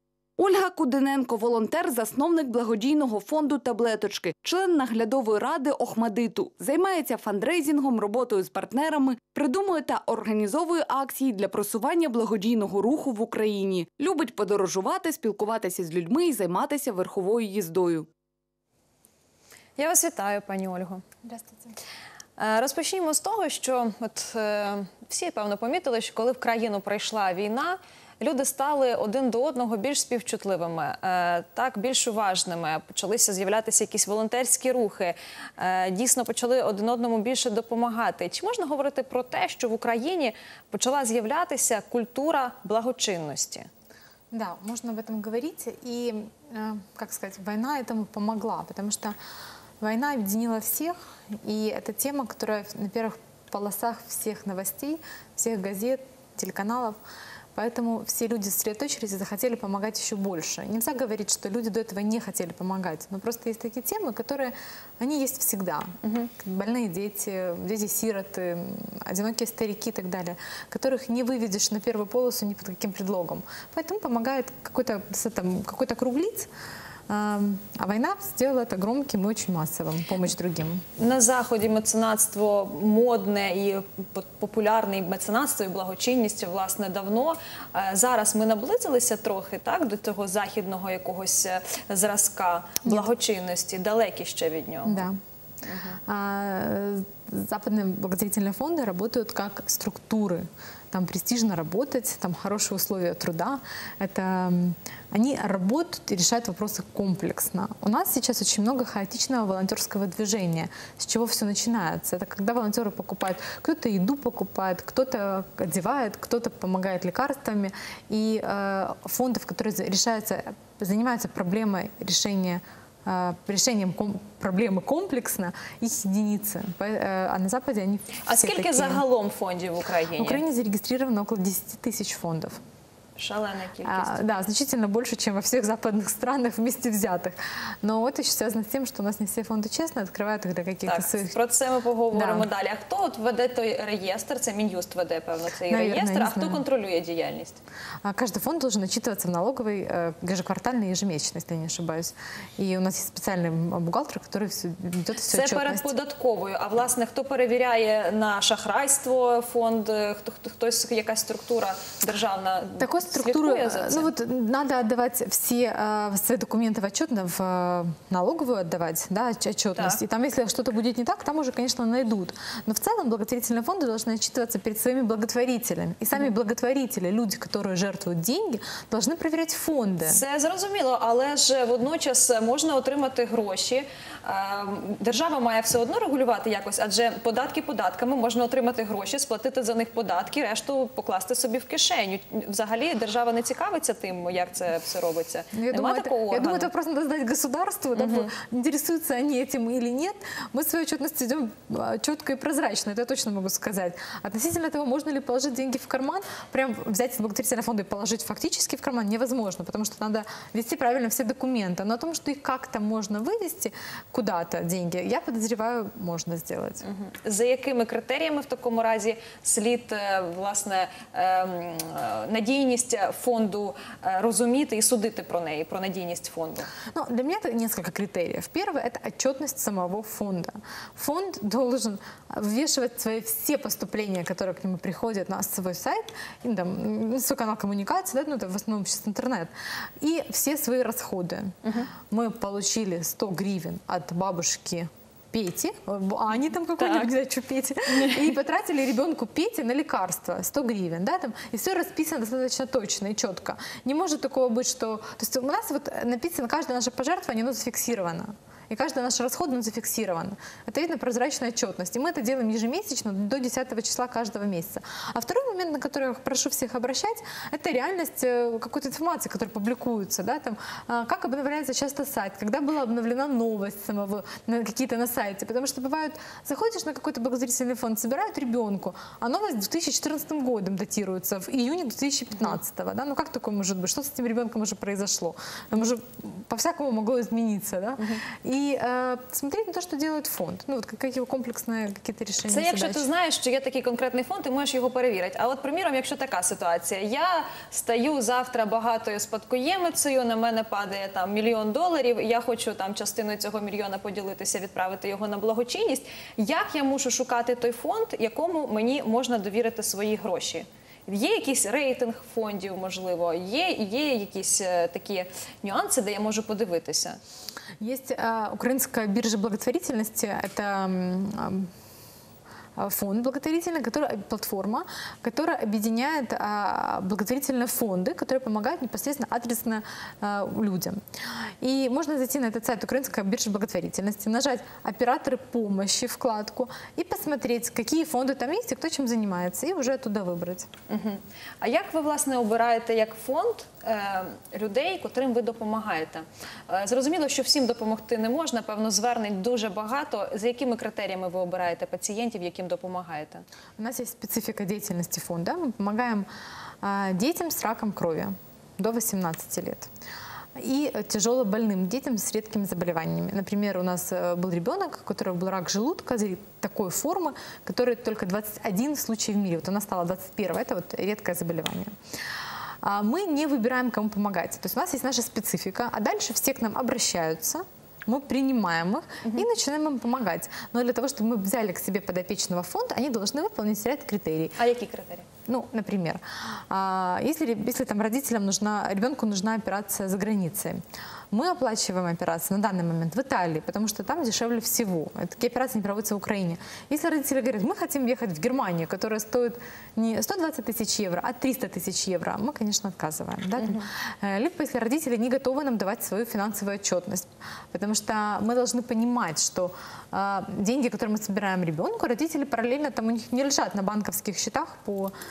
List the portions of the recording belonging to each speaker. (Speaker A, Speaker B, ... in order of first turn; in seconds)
Speaker A: 0.4-18.1
Speaker B: 19.8-21.0, 22.4-43.7, 66.0-66.3, 81.0-95.1, 95.6-96.0, 128.2-130.4, 133.2-134.1, 140.8-147.6, 155.3-164.1, 180.0-196.7, 197.9-198.3, 216.8-226.7, 241.6-241.9, 246.8-247.1, 247.9-248.3, 292.5-317.2, 340.9-353.4, 384.6-385.3, 403.6-403.9
Speaker C: 21.2-21.7, 44.3-49.2, 49.8-57.0, 57.5-76.5, 77.1-80.8, 92.8-93.1, 94.8-95.2, 96.0-129.0, 130.1-132.6, 133.8-141.3, 142.1-142.5, 145.7-146.6, 148.0-155.9, 162.8-180.2, 195.5-216.8, 226.9-293.1, 317.8-321.7, 322.8-340.7, 353.8-356.3, 356.8-359.9, 360.5-384.6, 385.4-415.1